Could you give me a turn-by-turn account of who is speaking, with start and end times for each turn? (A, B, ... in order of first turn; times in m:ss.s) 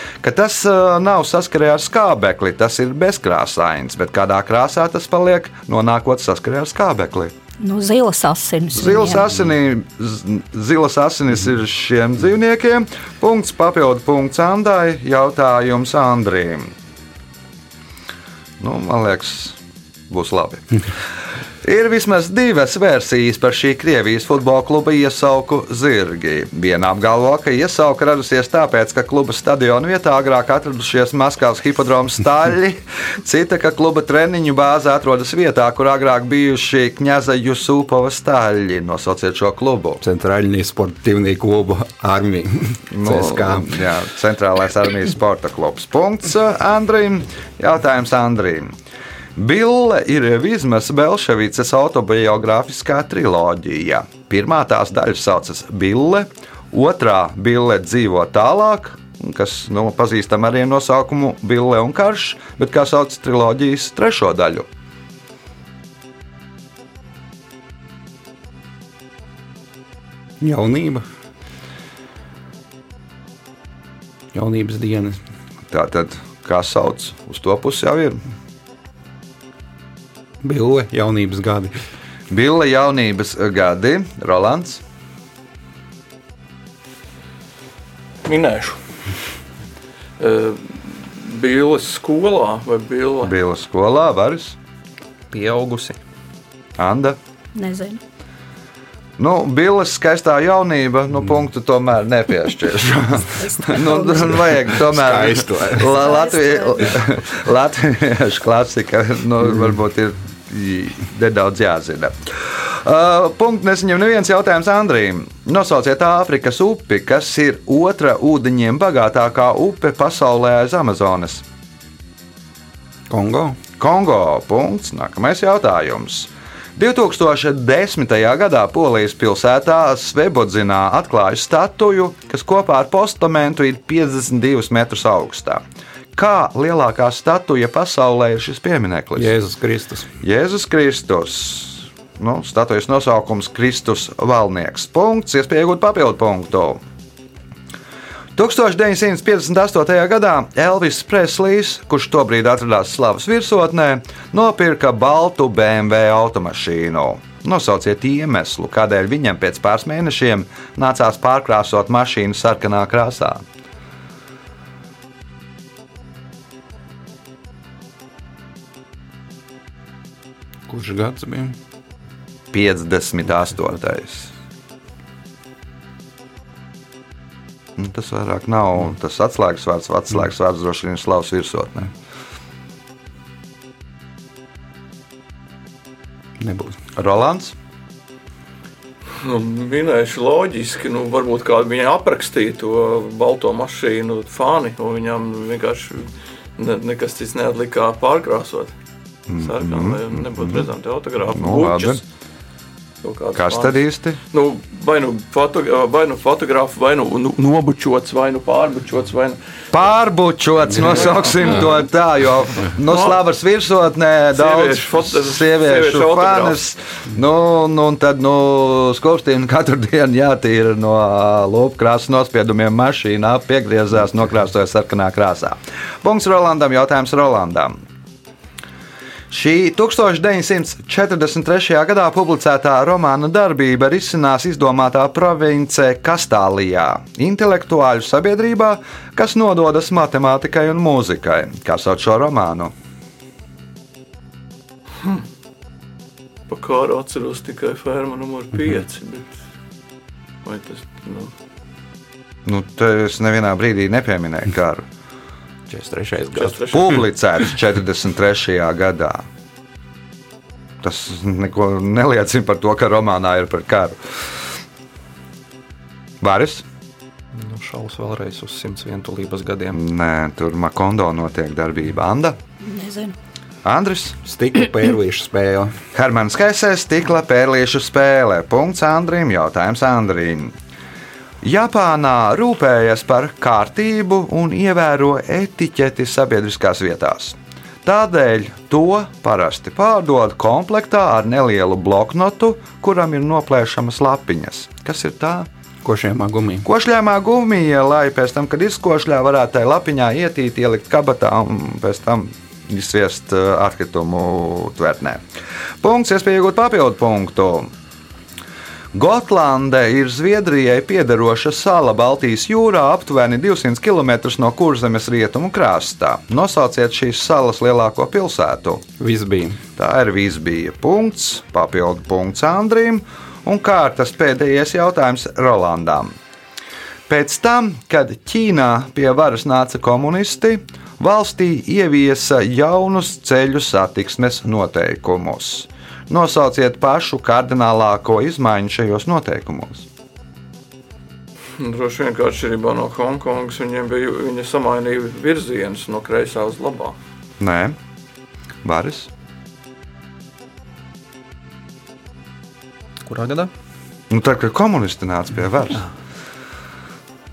0:00.2-0:07.3 A
0:07.6-0:09.3 B
0:08.7-0:16.7 A
0:18.6-0:19.6 A
0:20.1-0:20.8 A
0:21.6-0:40.0 A
0:40.0-0:43.8 C
0:42.9-0:48.7 A
0:49.4-1:04.7 A
1:10.4-1:11.0 C
1:14.3-1:15.2 C
1:15.7-1:18.2 A
1:20.4-1:21.7 C
1:22.3-1:24.8 A
1:28.2-1:28.8 D
1:30.2-1:33.3 D
1:33.2-1:34.6 A
1:35.3-1:36.0 E
1:36.8-1:37.2 A
1:37.6-1:38.0 B
1:39.2-2:01.4 A
1:43.4-1:44.5 B
1:44.5-1:46.1 C
1:45.9-1:47.0 B
2:03.1-2:03.6 C
2:03.8-2:15.6 A
2:16.1-2:19.3 A
2:19.2-2:20.1 C
2:20.2-2:26.8 A
2:28.4-2:43.4 A
2:50.7-2:51.6 C
2:52.5-2:54.3 A
2:57.8-3:01.9 A
3:06.4-3:06.8 C
3:07.0-3:07.6 A
3:09.2-3:18.7 D
3:19.3-3:20.7 A
3:19.4-3:22.0 D
3:21.3-3:22.0 A
3:23.0-3:29.4 D
3:23.4-3:24.2 A
3:29.7-3:47.8 A
3:30.8-3:31.7 D
3:32.8-3:33.2 D
3:34.3-3:36.6 D
3:49.3-4:02.7 A
4:06.5-4:09.4 D
4:10.4-4:11.3 D
4:12.5-4:14.8 A
4:15.7-4:16.8 C
4:16.4-4:17.0 D
4:16.7-4:19.2 A
4:20.8-4:24.0 A
4:26.2-4:26.6 A
4:27.3-4:29.8 E
4:29.7-4:32.4 A
4:32.6-4:33.2 B
4:33.6-4:34.2 A
4:34.2-4:35.8 C
4:35.9-4:40.6 A
4:41.4-4:55.5 A
4:55.8-4:56.7 C
4:56.6-5:05.2 A
5:05.8-5:07.7 A
5:08.9-5:18.9 A
5:19.0-5:19.6 C
5:19.8-5:26.1 A
5:27.1-5:39.9 A
5:41.6-5:47.0 D
5:47.4-5:47.8 A
5:48.6-5:49.1 A
5:53.0-5:53.5 E
5:54.1-5:55.9 A